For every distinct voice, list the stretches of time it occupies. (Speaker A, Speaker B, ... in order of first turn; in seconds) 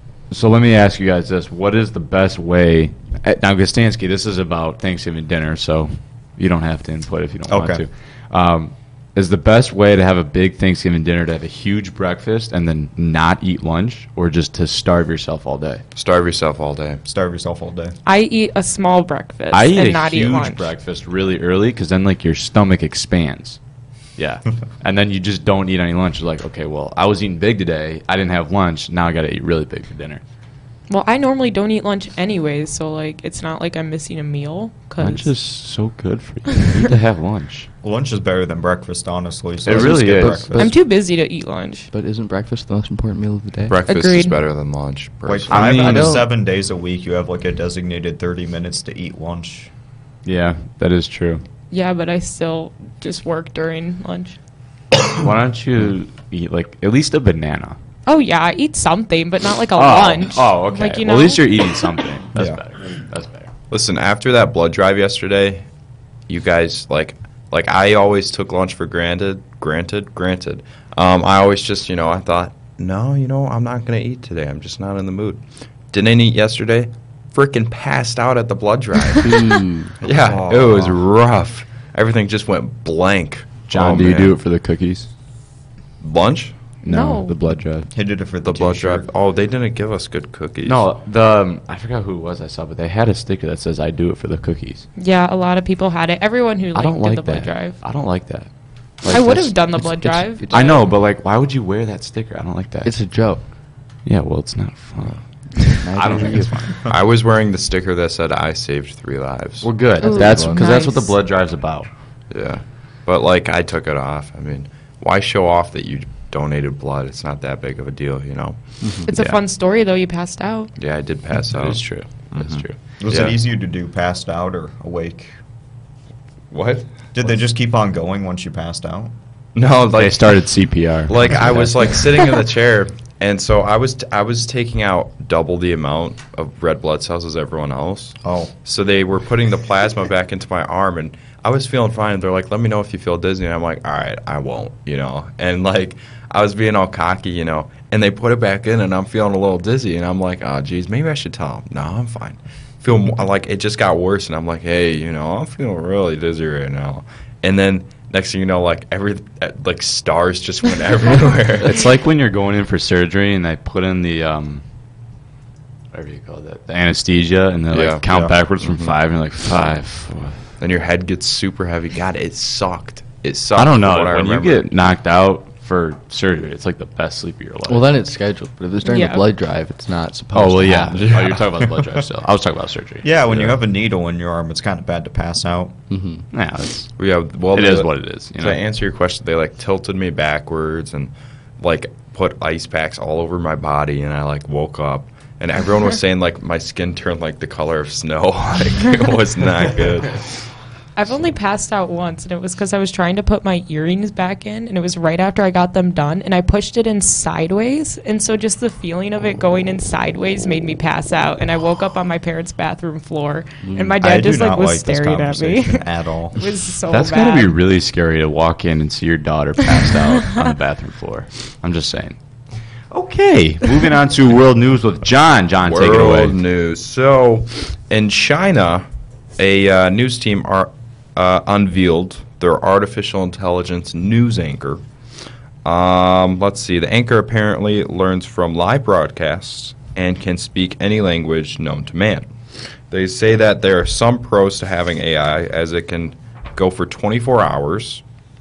Speaker A: 0.3-15.8, 19.5-23.6, 24.2-30.2, 35.0-37.7, 39.6-40.7, 45.5-46.3, 50.2-51.4, 55.1-57.8, 59.8-63.5, 83.7-85.1, 86.8-87.9, 90.6-94.8, 96.7-98.5, 99.0-99.8, 100.5-102.9, 104.0-106.8, 109.6-111.9, 119.1-119.4, 121.5-122.8, 129.9-131.7, 161.6-164.6, 165.9-170.4, 173.6-177.9, 180.3-183.5, 186.3-186.9, 187.5-188.6, 216.9-222.2, 222.9-226.3
Speaker B: 7.5-7.8, 17.0-17.9, 37.8-40.7, 45.2-49.7, 62.3-62.6, 80.0-81.0, 87.9-89.1, 123.0-125.4, 127.1-129.1, 138.2-138.5, 168.1-168.3, 183.0-185.7, 214.0-216.4
Speaker C: 15.9-17.0, 43.7-46.1, 63.7-65.6, 66.3-84.3, 86.0-86.5, 88.4-90.8, 106.8-109.7, 112.3-118.6, 120.8-123.3, 126.5-126.9, 129.5-130.4, 131.1-161.8, 167.7-168.0, 168.6-168.9, 170.6-174.6, 187.0-200.5, 225.6-228.8, 229.4-234.8, 235.6-248.0
Speaker D: 18.1-20.7, 30.9-35.3, 40.5-41.9, 43.9-44.4, 51.7-54.4, 58.0-61.5, 86.8-87.3, 95.0-97.8, 99.1-100.8, 110.0-111.2, 119.0-120.7, 178.8-179.2, 200.9-217.6
Speaker E: 41.9-43.8, 79.2-79.9, 100.0-100.5, 102.8-103.4, 105.8-106.5, 110.0-110.6, 118.8-119.1, 177.7-181.3, 185.9-186.3, 213.6-213.9